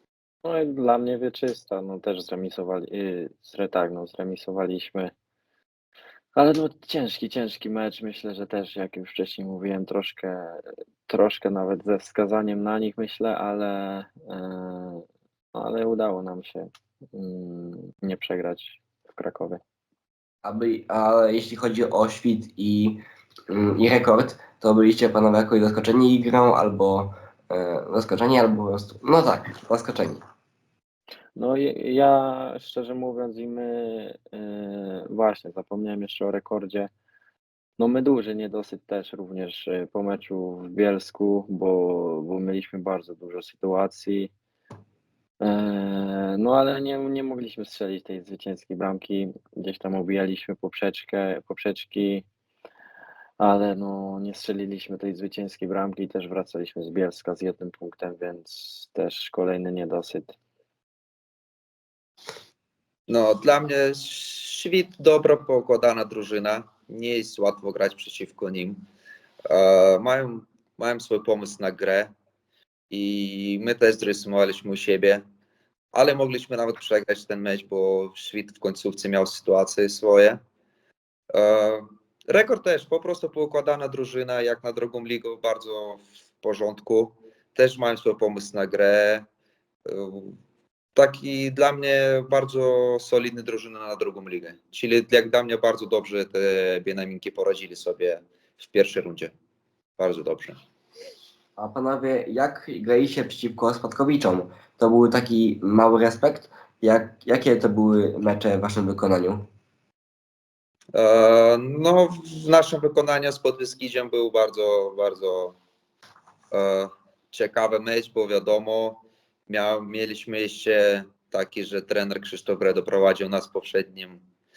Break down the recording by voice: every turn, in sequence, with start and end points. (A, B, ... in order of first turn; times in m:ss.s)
0:00.4-0:05.1 A
0:06.4-0:19.6 A
0:20.4-0:30.2 B
0:31.4-0:36.9 A
0:37.8-0:44.3 A
0:45.4-0:52.2 A
0:53.4-1:00.4 A
1:03.1-1:08.8 C
1:09.5-1:12.1 C
1:12.9-1:15.2 C
1:15.9-1:20.4 C
1:21.3-1:29.2 C
1:29.8-1:30.4 C
1:30.9-1:39.3 C
1:40.0-1:40.6 C
1:41.6-1:49.4 B
1:50.9-1:55.6 C
1:56.5-2:04.2 C